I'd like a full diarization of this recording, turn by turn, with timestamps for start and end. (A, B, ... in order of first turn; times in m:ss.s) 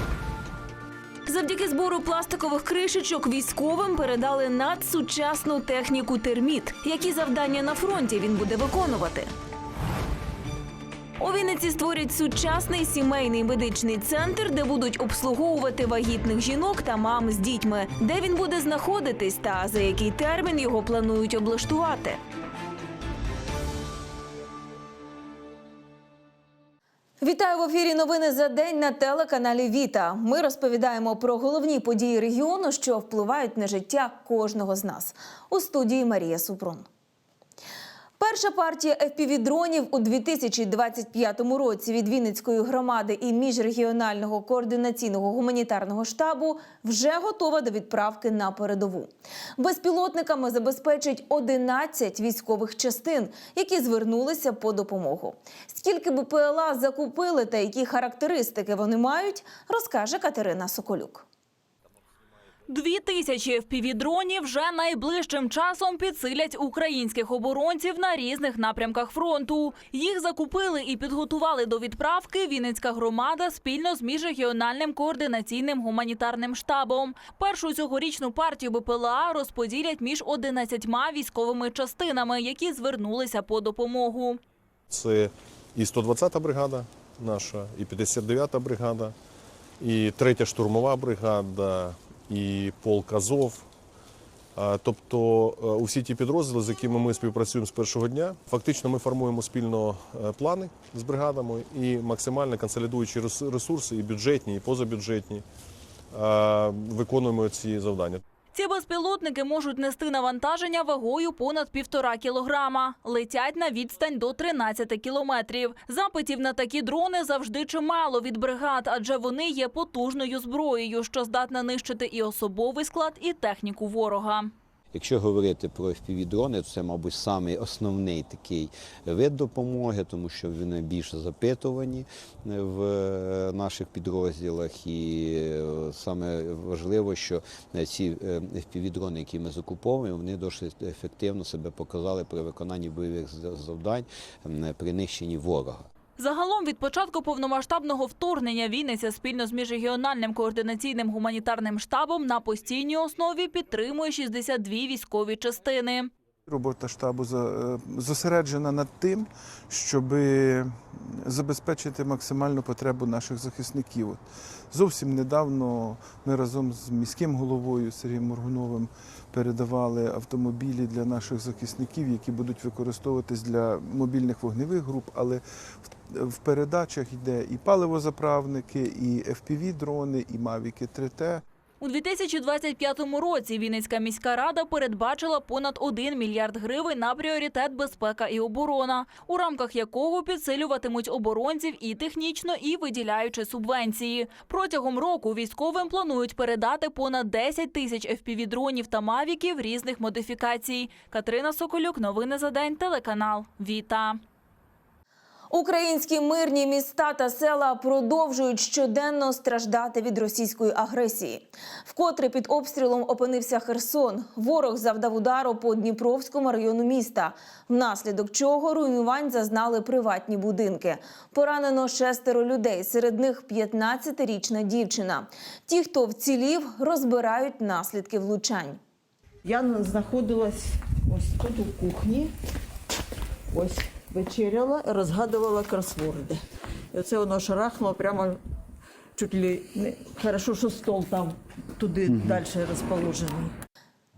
0:01.2-0:09.3 A
0:11.2-0:22.2 A
0:27.2-0:36.9 A
0:38.2-1:01.2 A
1:02.7-1:24.4 B
1:24.9-1:29.1 C
1:29.8-1:33.6 C
1:34.6-1:45.4 C
1:46.1-1:48.2 C
1:48.5-2:04.5 B
2:04.9-2:25.9 D
2:26.2-2:36.1 B
2:36.5-3:01.4 E
3:01.8-3:24.2 B
3:25.5-3:48.8 A
3:49.4-3:52.3 F
3:53.5-3:56.4 F
3:56.9-3:58.4 F
3:59.2-4:03.5 F